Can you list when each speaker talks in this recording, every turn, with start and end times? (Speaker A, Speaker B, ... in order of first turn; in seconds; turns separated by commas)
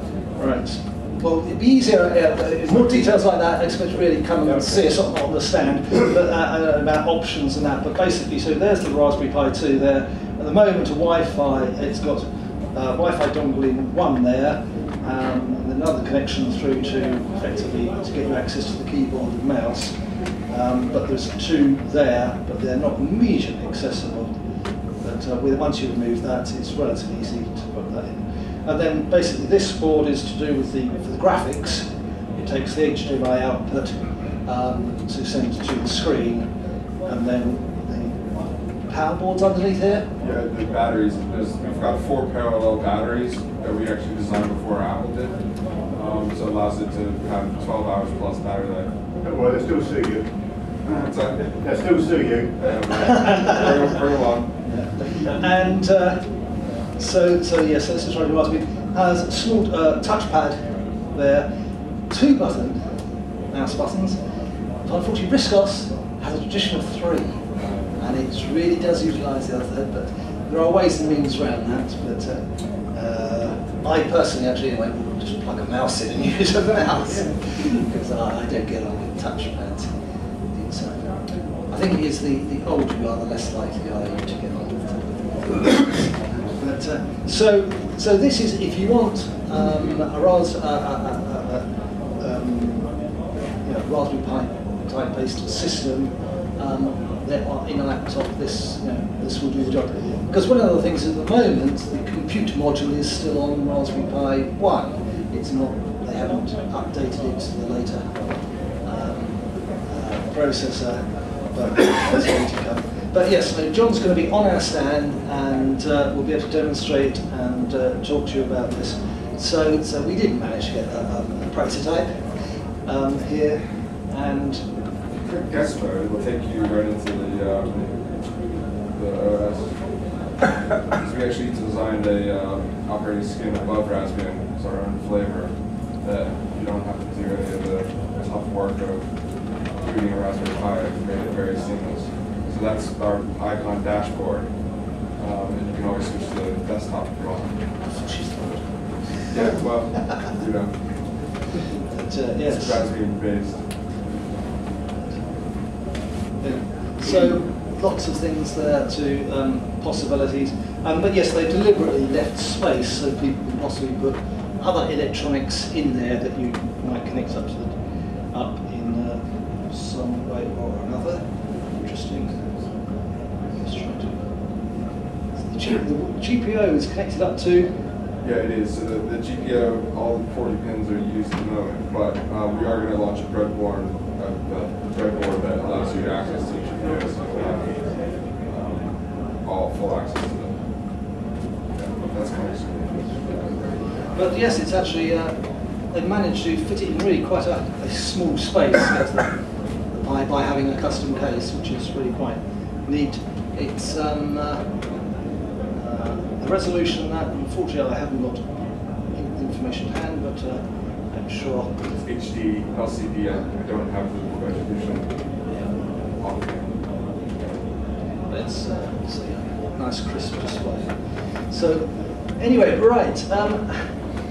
Speaker A: 0.4-19.9, Speaker A: 20.5-24.3, Speaker A: 25.0-36.5, Speaker A: 37.0-38.2, Speaker A: 38.9-40.1, Speaker B: 40.2-48.9, Speaker C: 49.2-50.3, Speaker B: 50.9-51.5, Speaker C: 51.4-53.2, Speaker B: 52.6-54.6, Speaker A: 54.7-56.2, Speaker A: 57.0-61.5, Speaker A: 62.1-62.8, Speaker A: 63.5-64.2, Speaker A: 64.8-67.4, Speaker B: 67.6-67.9, Speaker A: 68.0-79.9, Speaker A: 80.5-81.1, Speaker A: 81.7-91.7, Speaker A: 92.2-92.9, Speaker A: 93.6-108.1, Speaker A: 108.8-111.0, Speaker A: 111.5-122.1, Speaker A: 122.8-124.6, Speaker B: 125.4-129.9, Speaker B: 130.9-147.6, Speaker A: 147.8-148.8, Speaker B: 149.3-151.4, Speaker A: 151.9-152.8, Speaker B: 152.5-153.7, Speaker A: 156.4-167.8, Speaker A: 168.3-171.2, Speaker A: 171.8-172.7, Speaker A: 173.6-174.3, Speaker A: 175.4-177.8, Speaker B: 178.2-190.6, Speaker B: 191.7-193.6, Speaker A: 194.1-195.3, Speaker A: 195.9-199.3, Speaker A: 199.9-204.6, Speaker A: 205.8-208.5, Speaker A: 209.1-211.7, Speaker B: 211.8-215.1, Speaker B: 216.1-216.9, Speaker A: 218.3-220.9, Speaker A: 221.5-221.9, Speaker A: 222.4-223.9